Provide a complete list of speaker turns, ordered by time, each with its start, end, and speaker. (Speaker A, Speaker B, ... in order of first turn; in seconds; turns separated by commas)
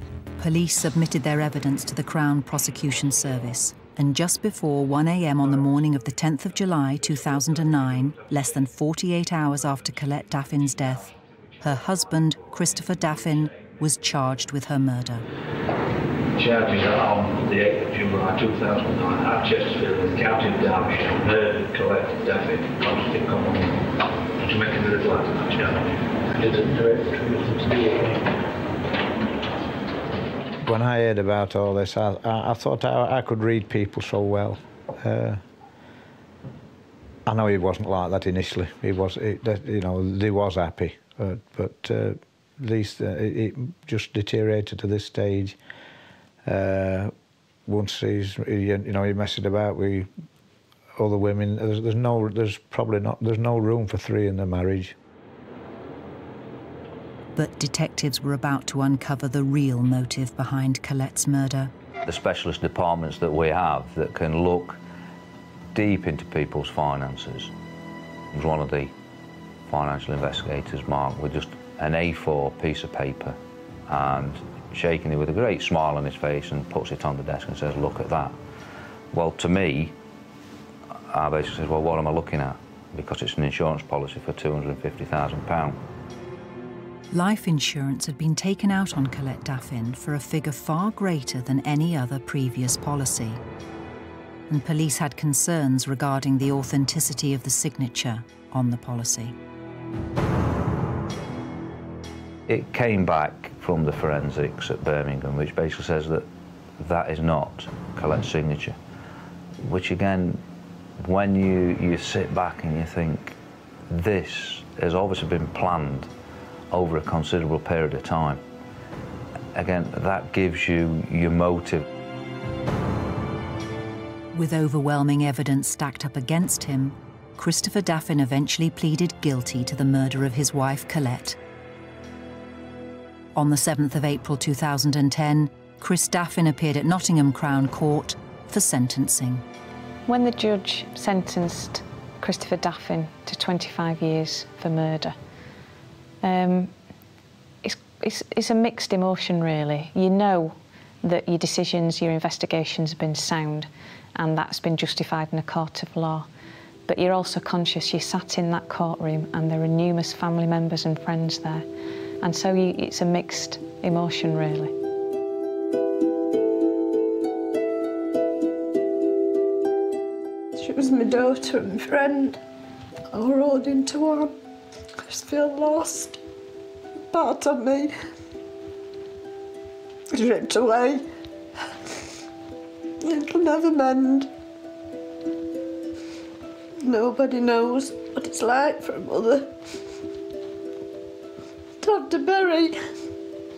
Speaker A: 0.4-15.2, Speaker B: 16.4-28.3, Speaker C: 30.6-35.4, Speaker C: 37.3-45.6, Speaker C: 46.5-47.1, Speaker C: 47.7-50.1, Speaker C: 51.0-55.0, Speaker A: 57.4-61.7, Speaker D: 62.1-64.8, Speaker D: 65.7-67.5, Speaker D: 68.3-68.9, Speaker D: 69.7-78.4, Speaker D: 79.1-80.0, Speaker D: 81.1-85.8, Speaker A: 87.1-93.4, Speaker A: 94.5-99.3, Speaker D: 102.5-106.3, Speaker D: 106.8-108.8, Speaker D: 109.6-110.4, Speaker D: 111.0-113.4, Speaker D: 113.9-116.1, Speaker D: 116.7-118.4, Speaker D: 119.5-121.8, Speaker A: 124.3-131.4, Speaker A: 133.3-139.4, Speaker E: 140.1-145.2, Speaker E: 146.2-146.7, Speaker E: 147.6-156.3, Speaker E: 156.9-161.7, Speaker E: 162.2-164.7, Speaker F: 170.6-172.4, Speaker F: 173.1-174.4, Speaker F: 175.0-176.2, Speaker F: 177.1-177.9, Speaker F: 180.1-181.0, Speaker F: 183.0-184.3, Speaker F: 186.8-189.6, Speaker F: 191.8-192.8